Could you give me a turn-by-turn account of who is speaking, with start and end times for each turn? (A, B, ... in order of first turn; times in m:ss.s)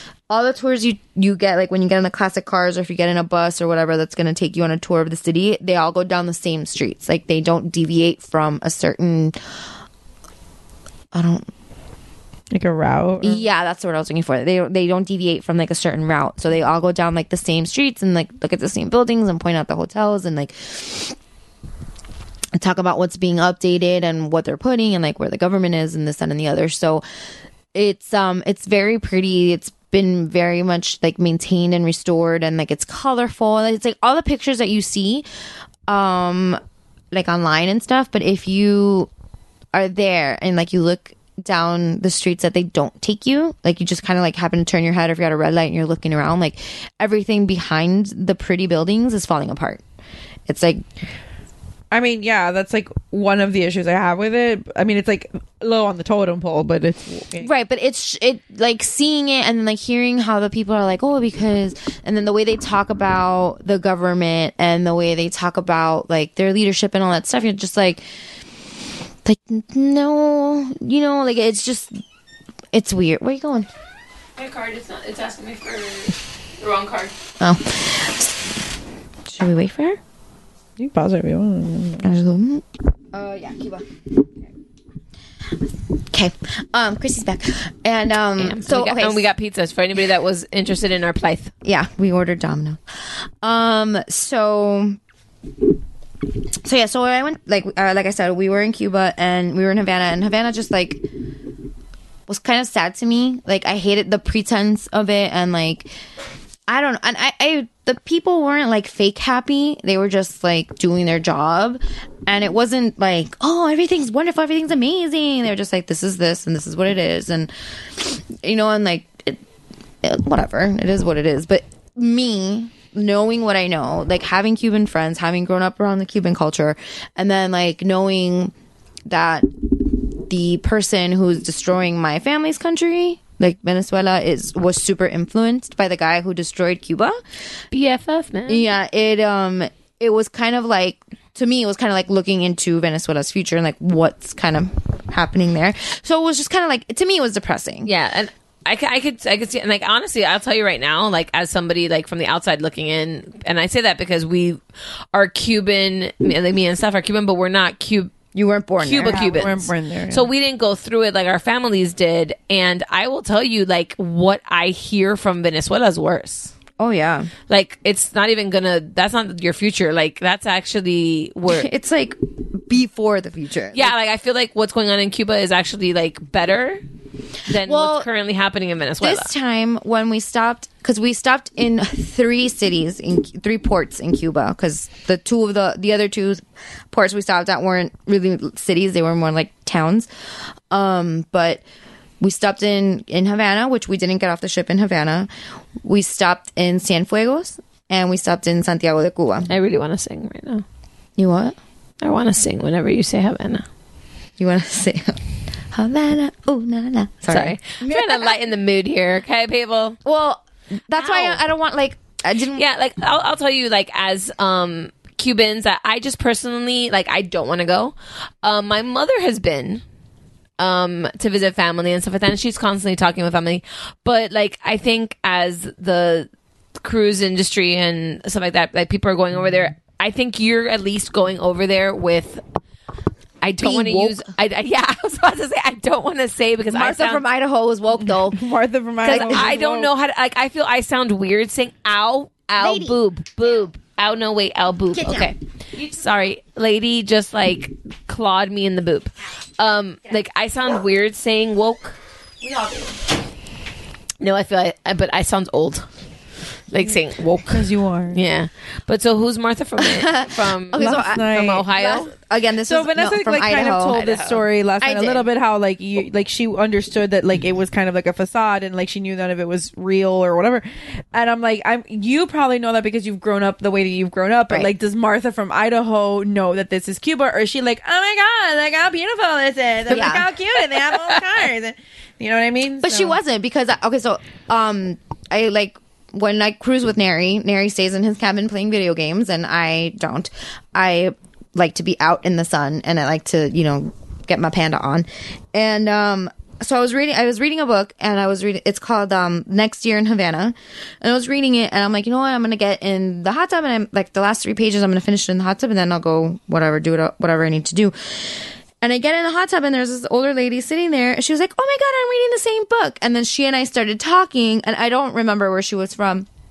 0:00.3-0:09.4 A
0:11.1-0:11.5 A
0:12.5-0:13.4 B
0:13.2-0:21.2 A
0:22.6-0:27.0 A
0:27.7-0:35.3 A
0:35.9-0:36.6 A
0:37.1-0:39.1 A
0:39.7-0:49.8 A
0:50.5-0:50.8 A
0:51.9-0:57.5 B
0:57.4-1:08.1 A
1:09.2-1:12.0 A
1:12.7-1:13.7 A
1:14.4-1:17.1 C
1:17.4-1:18.4 A
1:19.3-1:20.0 A
1:20.8-1:22.1 B
1:22.0-1:24.3 A
1:26.1-1:29.3 A
1:28.4-1:31.5 C
1:31.6-1:35.0 A
1:36.6-1:41.5 A
1:42.3-1:45.9 A
1:46.7-1:59.4 A
2:00.0-2:08.5 A
2:09.1-2:17.2 A
2:17.7-2:18.6 C
2:18.5-2:27.9 A
2:27.8-2:34.6 C
2:35.1-2:38.1 C
2:38.3-2:39.6 A
2:38.8-2:46.5 C
2:39.1-2:40.3 B
2:46.8-2:47.3 A
2:47.5-2:51.7 C
2:51.5-2:53.9 A
2:53.7-2:56.8 C
2:57.5-2:59.3 C
2:57.6-2:58.1 A
2:59.0-3:10.1 A
3:10.7-3:11.6 A
3:12.2-3:15.3 A
3:15.8-3:19.5 A
3:19.5-3:20.6 C
3:21.2-3:21.6 A
3:22.0-3:23.7 C
3:24.4-3:28.3 A
3:27.3-3:30.0 C
3:30.0-3:32.6 A
3:31.0-3:31.4 C
3:32.5-3:39.8 C
3:40.6-3:46.3 C
3:46.8-3:52.4 C
3:53.4-3:57.2 C
3:53.6-3:54.2 A
3:56.7-3:58.4 A
3:58.3-3:59.9 B
3:59.0-4:12.0 C
3:59.0-3:59.5 A
4:02.6-4:03.0 A
4:04.9-4:05.3 A
4:12.4-4:12.7 A
4:14.2-4:15.9 C
4:16.7-4:22.1 C
4:17.5-4:18.2 B
4:19.8-4:24.0 A
4:20.8-4:21.7 B
4:22.7-4:43.2 B
4:23.9-4:24.4 C
4:24.8-4:25.3 A
4:39.9-4:40.3 A
4:42.8-5:16.3 A